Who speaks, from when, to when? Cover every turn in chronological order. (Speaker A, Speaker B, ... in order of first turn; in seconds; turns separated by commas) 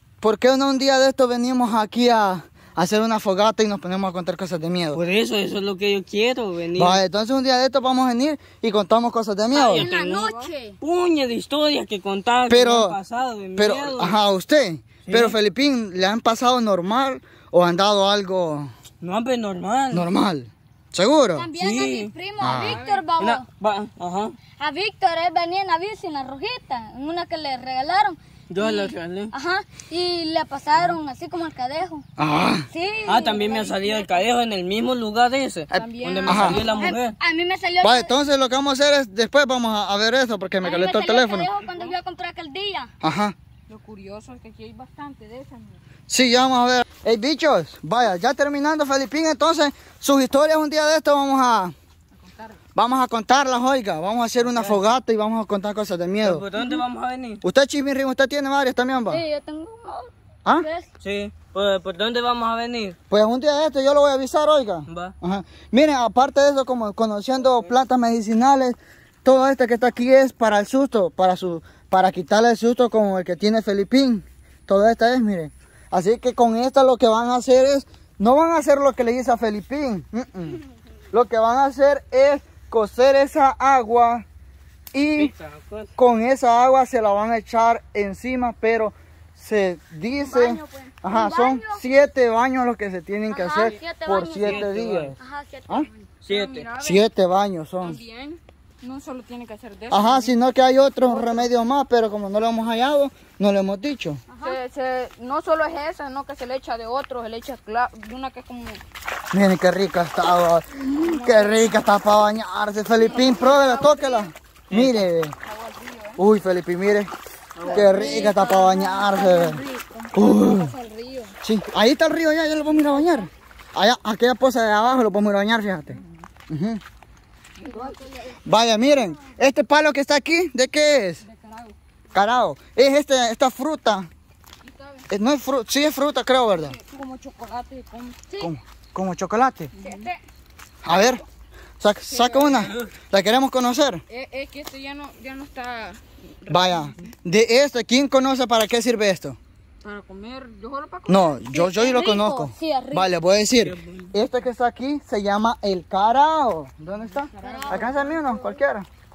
Speaker A: 0.2-5.0, Speaker B: 4.9-7.0, Speaker A: 6.7-9.9, Speaker B: 9.5-10.2, Speaker C: 9.7-10.8, Speaker D: 10.0-10.5, Speaker B: 10.8-14.2, Speaker A: 12.5-12.9, Speaker A: 13.6-18.7, Speaker B: 15.1-15.3, Speaker B: 19.0-20.1, Speaker A: 19.9-21.5, Speaker C: 21.3-23.4, Speaker B: 21.6-22.1, Speaker A: 22.4-22.8, Speaker D: 22.6-23.1, Speaker B: 23.2-24.3, Speaker C: 24.6-32.0, Speaker B: 28.5-29.3, Speaker A: 32.2-32.7, Speaker C: 32.7-34.2, Speaker B: 33.0-37.1, Speaker D: 35.7-36.9, Speaker A: 35.7-36.6, Speaker C: 36.7-38.1, Speaker A: 37.8-41.5, Speaker C: 40.6-42.9, Speaker D: 41.6-41.9, Speaker A: 43.0-43.3, Speaker D: 43.7-45.8, Speaker A: 46.1-51.7, Speaker D: 52.1-52.6, Speaker A: 52.8-56.4, Speaker B: 54.4-54.8, Speaker B: 56.2-57.4, Speaker A: 57.4-59.2, Speaker C: 59.1-60.9, Speaker B: 61.0-63.0, Speaker A: 63.1-80.6, Speaker B: 64.9-65.1, Speaker A: 81.1-84.2, Speaker A: 84.9-85.3, Speaker B: 85.2-85.9, Speaker A: 86.0-95.2, Speaker C: 91.0-91.8, Speaker C: 93.3-96.0, Speaker B: 94.4-95.1, Speaker B: 96.2-96.7, Speaker D: 96.3-97.0, Speaker A: 96.8-98.0, Speaker D: 97.8-100.3, Speaker A: 99.9-104.2, Speaker D: 101.0-101.5, Speaker C: 104.3-104.6, Speaker D: 104.4-108.8, Speaker A: 109.3-115.3, Speaker D: 110.9-111.8, Speaker D: 113.0-114.3, Speaker B: 114.7-115.0, Speaker D: 115.2-116.2, Speaker A: 116.2-117.1, Speaker B: 117.5-118.3, Speaker D: 117.6-121.3, Speaker A: 117.7-119.6, Speaker A: 120.1-120.7, Speaker A: 121.4-126.8, Speaker D: 123.0-123.2, Speaker D: 125.9-126.2, Speaker D: 127.6-128.4, Speaker A: 128.4-131.2, Speaker D: 131.2-131.8, Speaker A: 132.1-134.1, Speaker D: 134.6-135.1, Speaker A: 135.1-136.8, Speaker D: 136.5-138.2, Speaker A: 138.4-139.7, Speaker D: 139.7-140.1, Speaker C: 139.8-140.2, Speaker A: 140.8-141.2, Speaker A: 141.8-144.0, Speaker D: 142.1-142.6, Speaker B: 142.5-142.9, Speaker D: 144.1-147.0, Speaker A: 146.5-149.4, Speaker D: 149.8-151.4, Speaker A: 151.1-158.9, Speaker C: 151.5-153.1, Speaker B: 153.6-154.1, Speaker D: 157.0-158.4, Speaker C: 157.4-158.1